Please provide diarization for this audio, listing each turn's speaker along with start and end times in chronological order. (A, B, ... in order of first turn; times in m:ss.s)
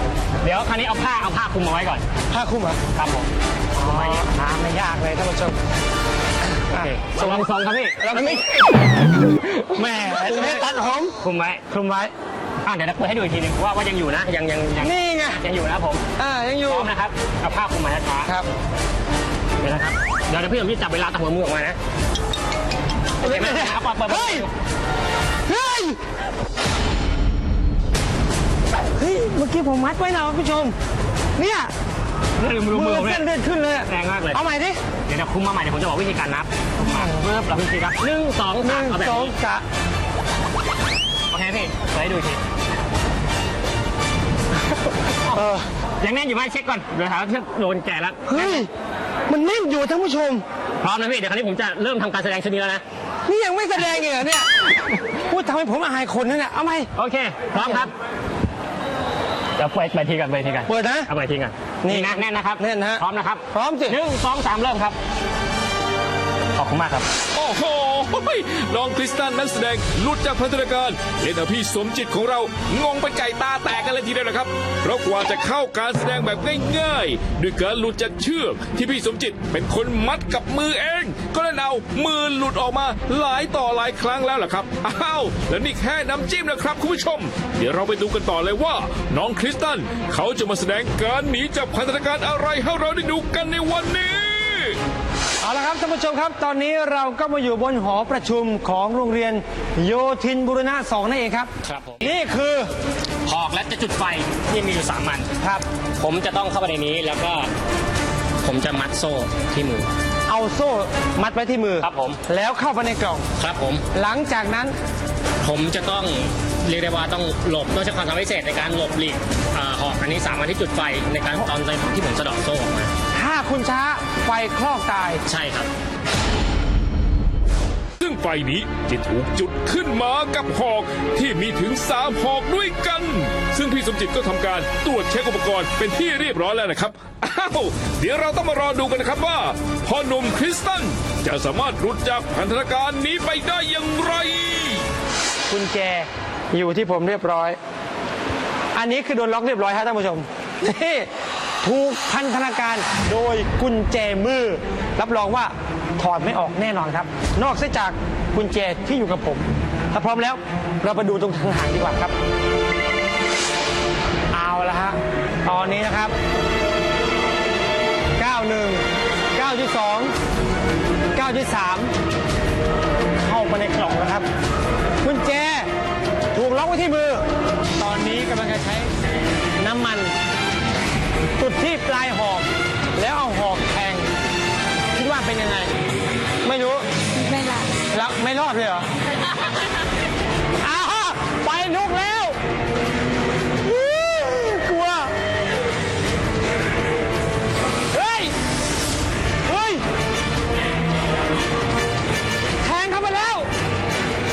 0:00.4-0:02.0 A
0:02.3-0:02.8 B
0:02.9-0:04.3 A
0:03.8-0:05.6 B
0:06.7-0:07.5 B
0:06.8-0:10.6 A
0:08.0-0:09.0 B
0:09.6-0:11.2 B
0:11.2-0:11.8 A
0:11.7-0:12.1 B
0:12.6-0:16.0 A
0:14.8-0:15.4 B
0:16.2-0:16.9 B
0:16.7-0:18.3 A
0:19.6-0:21.8 A
0:23.2-0:24.5 A
0:23.2-0:24.5 B
0:25.4-0:26.0 B
0:29.0-0:30.7 B
0:31.4-0:31.7 B
0:32.4-0:33.3 A
0:32.7-0:34.8 B
0:33.8-0:34.4 A
0:35.1-0:39.3 A
0:36.8-0:37.2 B
0:38.6-0:39.6 B
0:41.3-0:42.4 A
0:45.3-0:45.7 B
0:46.0-0:48.6 A
0:48.3-0:48.7 B
0:49.3-0:50.4 B
0:50.8-0:52.8 A
0:53.2-0:56.9 B
0:56.9-0:57.9 A
0:57.5-0:57.9 B
0:59.6-1:05.0 A
1:00.7-1:01.1 B
1:01.8-1:04.0 B
1:06.5-1:07.1 A
1:07.3-1:34.8 C
1:35.4-1:42.7 B
1:41.6-1:42.1 A
1:43.2-1:45.3 A
1:45.4-1:45.6 B
1:46.0-1:47.5 A
1:48.4-1:49.9 A
1:50.3-1:53.2 B
1:51.8-1:52.2 A
1:53.4-1:53.8 A
1:53.9-1:54.7 B
1:55.4-2:02.9 A
2:03.1-2:05.2 B
2:05.2-2:05.7 A
2:08.0-2:24.9 C
2:25.5-2:27.6 B
2:28.7-2:31.1 B
2:31.6-2:42.1 B
2:44.3-2:46.1 B
2:48.2-2:50.1 B
2:51.1-2:51.9 B
2:53.2-2:54.3 B
2:55.0-2:55.7 B
2:56.3-2:57.2 B
2:57.8-2:58.9 B
2:59.6-3:00.1 B
3:01.4-3:04.1 B
3:04.9-3:05.7 B
3:06.4-3:08.9 B
3:10.6-3:12.4 B
3:13.6-3:15.2 B
3:17.9-3:18.3 B
3:19.4-3:19.8 B
3:22.6-3:23.5 B